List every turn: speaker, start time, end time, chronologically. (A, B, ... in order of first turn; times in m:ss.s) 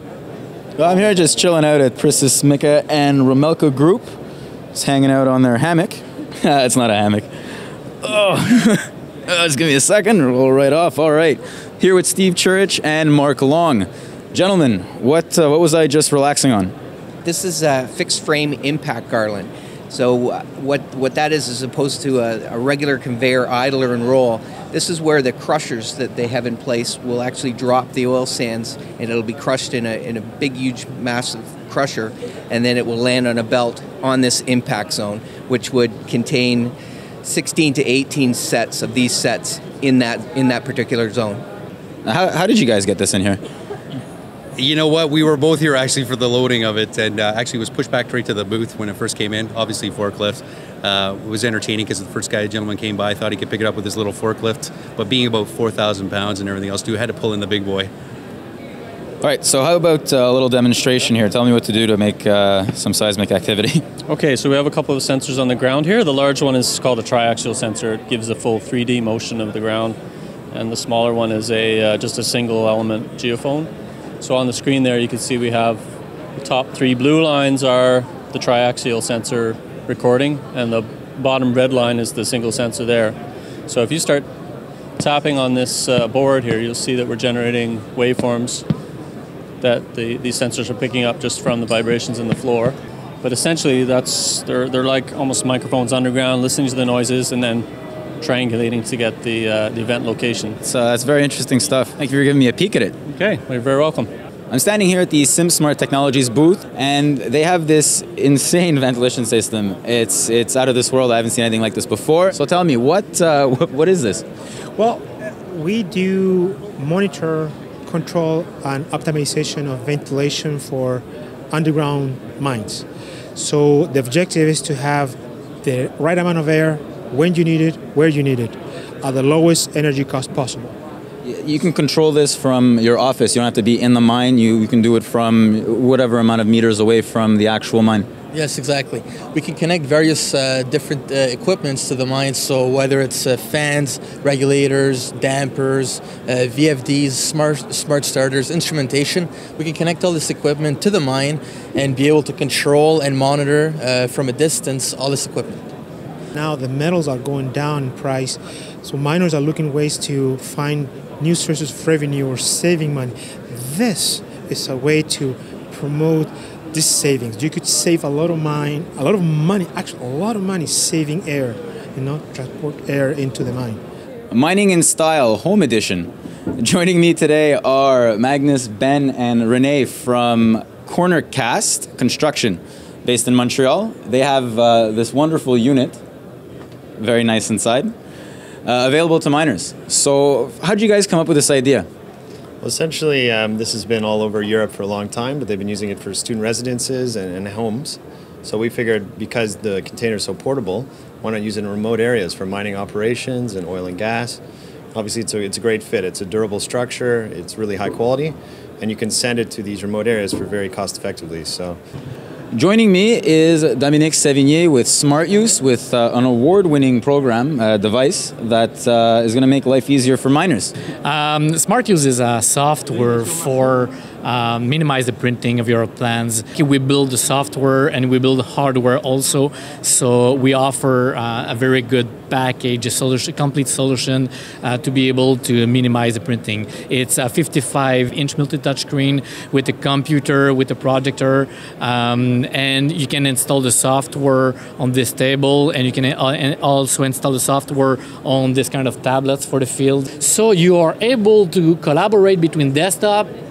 0:00.8-0:04.2 A
0:04.7-0:07.3 A
0:08.0-0:16.7 A
0:17.2-0:41.4 B
0:42.0-0:43.4 A
0:44.6-0:57.9 C
0:59.2-1:03.8 A
1:04.1-1:10.0 D
1:10.5-1:13.7 D
1:14.2-1:15.8 D
1:16.4-1:23.2 D
1:23.7-1:24.2 D
1:25.0-1:28.6 D
1:29.6-1:37.7 D
1:38.2-1:40.6 D
1:40.6-1:42.9 A
1:43.1-1:44.1 D
1:44.5-1:54.2 A
1:54.8-2:10.7 E
2:11.2-2:18.1 A
2:18.3-2:35.6 F
2:36.3-2:53.8 E
2:54.3-3:06.0 A
3:07.0-3:07.9 A
3:08.6-3:11.9 A
3:12.6-3:24.4 G
3:24.9-3:31.8 G
3:32.5-3:40.7 A
3:41.0-4:13.3 H